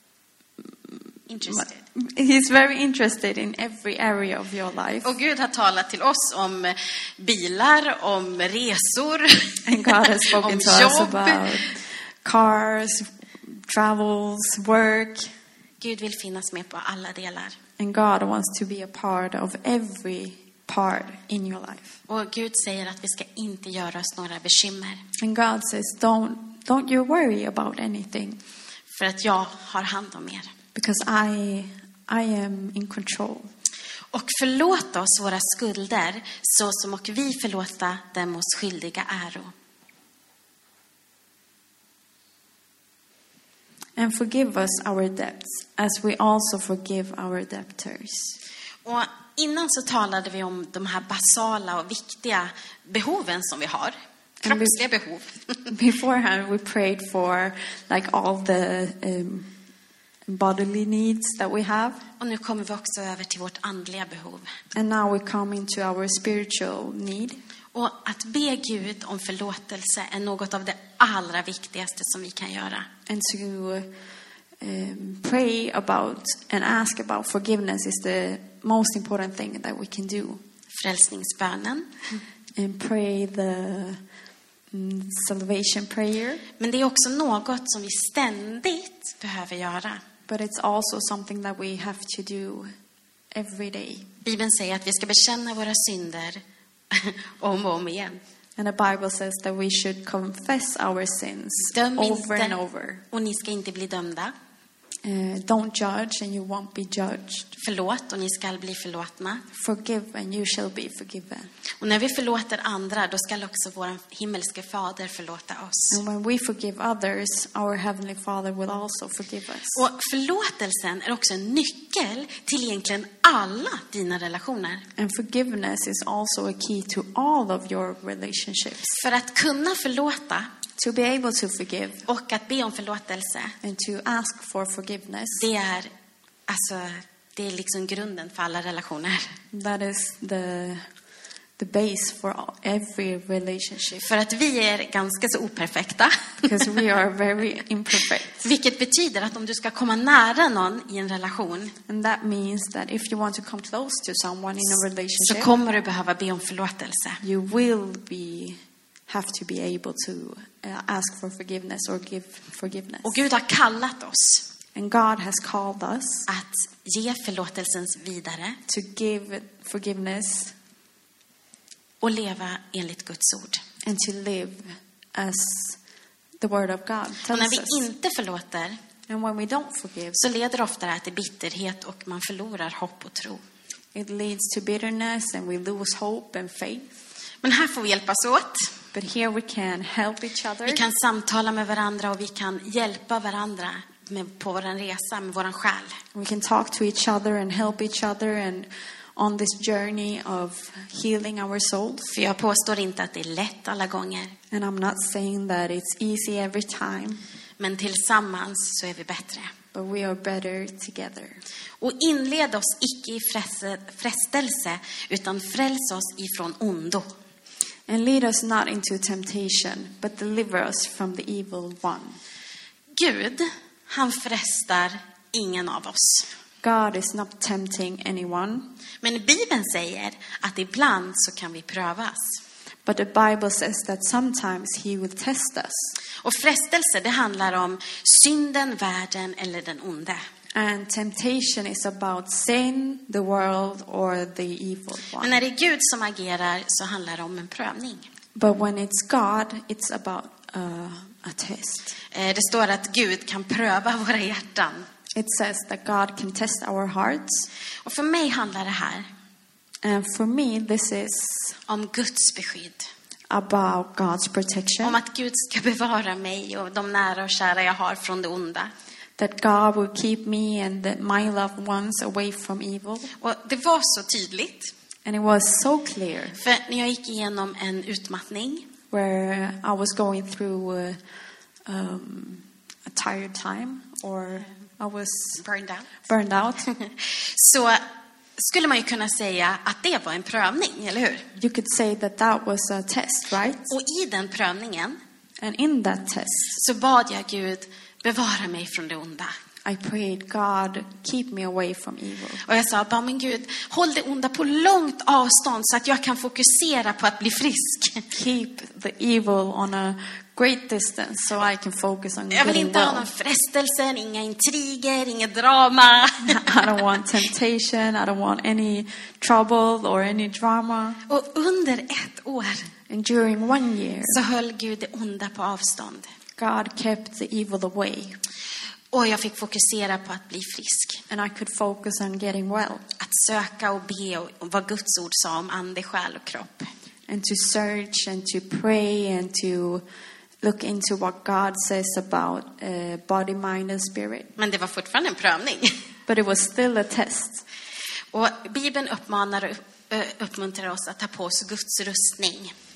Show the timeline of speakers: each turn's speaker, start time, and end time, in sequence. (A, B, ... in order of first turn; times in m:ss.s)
0:00.8-0:05.1 A
0:01.3-0:01.8 B
0:05.0-0:11.6 B
0:09.7-0:15.3 A
0:15.8-0:17.6 B
0:17.8-0:22.0 A
0:22.1-0:25.0 B
0:25.2-0:28.4 A
0:28.9-0:30.5 B
0:30.8-0:33.5 A
0:34.1-0:39.5 B
0:44.0-0:48.4 A
0:48.8-0:55.7 B
0:54.4-0:54.8 A
0:55.7-0:59.5 A
1:00.3-1:02.0 A
1:02.2-1:04.5 B
1:04.8-1:07.4 A
1:07.7-1:12.9 B
1:13.1-1:13.9 A
1:14.6-1:20.4 A
1:20.7-1:21.9 B
1:22.6-1:24.0 A
1:24.7-1:26.4 A
1:26.6-1:30.0 B
1:30.3-1:32.7 A
1:33.3-1:34.1 A
1:34.2-1:38.2 B
1:38.6-1:43.0 A
1:41.6-1:42.6 B
1:43.1-1:44.3 B
1:45.0-1:47.5 A
1:47.6-1:49.4 B
1:49.5-1:51.5 A
1:51.8-1:56.0 B
1:55.9-1:59.8 A
1:59.7-2:04.8 B
2:05.0-2:09.0 A
2:08.9-2:10.5 B
2:10.8-2:12.0 A
2:12.1-2:13.6 B
2:13.6-2:15.4 A
2:15.4-2:15.9 B
2:16.5-2:19.3 B
2:19.5-2:20.8 A
2:21.6-2:24.1 A
2:24.0-2:26.7 B
2:26.4-2:28.5 A
2:28.4-2:31.8 B
2:31.9-2:35.5 A
2:35.2-2:37.2 B
2:37.2-2:43.2 A
2:43.0-2:44.5 B
2:44.8-2:46.3 A
2:46.3-2:48.6 B
2:48.7-2:50.5 A
2:52.0-2:53.6 B
2:53.8-2:55.8 A
2:56.4-2:57.8 A
2:57.3-2:58.8 B
2:59.1-3:00.2 A
3:00.2-3:03.4 B
3:04.0-3:06.9 A
3:07.4-3:08.8 B
3:08.9-3:10.8 A
3:10.7-3:16.0 B
3:16.1-3:22.1 A
3:22.1-3:24.4 B
3:24.5-3:27.2 A
3:27.6-3:29.5 B
3:29.7-3:31.4 A
3:31.8-3:37.1 B
3:37.9-3:42.2 A
3:43.0-3:46.3 B
3:46.6-3:48.7 A
3:49.0-3:52.4 B
3:52.8-3:55.9 A
3:56.2-4:00.2 B
4:00.6-4:05.4 A
4:05.2-4:08.0 B
4:08.4-4:12.0 A
4:12.1-4:14.9 B
4:15.2-4:17.5 A
4:17.8-4:19.1 B
4:19.8-4:21.6 A
4:21.7-4:22.9 B
4:23.3-4:25.0 A
4:24.8-4:28.7 B
4:29.2-4:33.1 A
4:33.2-4:34.7 B
4:35.0-4:36.4 A
4:36.4-4:38.7 B
4:38.9-4:41.0 A
4:41.7-4:45.4 A
4:45.4-4:45.9 B
4:46.1-4:46.7 A
4:46.7-4:47.8 B
4:48.4-4:51.3 B
4:51.4-4:53.7 A
4:53.7-4:55.0 B
4:55.4-4:56.5 A
4:56.5-4:59.3 B
4:59.6-5:02.4 A
5:02.4-5:08.1 B
5:08.1-5:13.1 A
5:12.3-5:16.9 B
5:16.2-5:21.0 A
5:21.1-5:22.7 B
5:22.9-5:24.2 A
5:24.0-5:26.1 B
5:26.4-5:28.2 A
5:28.9-5:31.0 B
5:31.1-5:32.8 A
5:33.0-5:36.7 B
5:37.1-5:39.8 A
5:40.4-5:44.3 A
5:44.4-5:45.8 B
5:46.1-5:47.4 A
5:48.1-5:52.5 B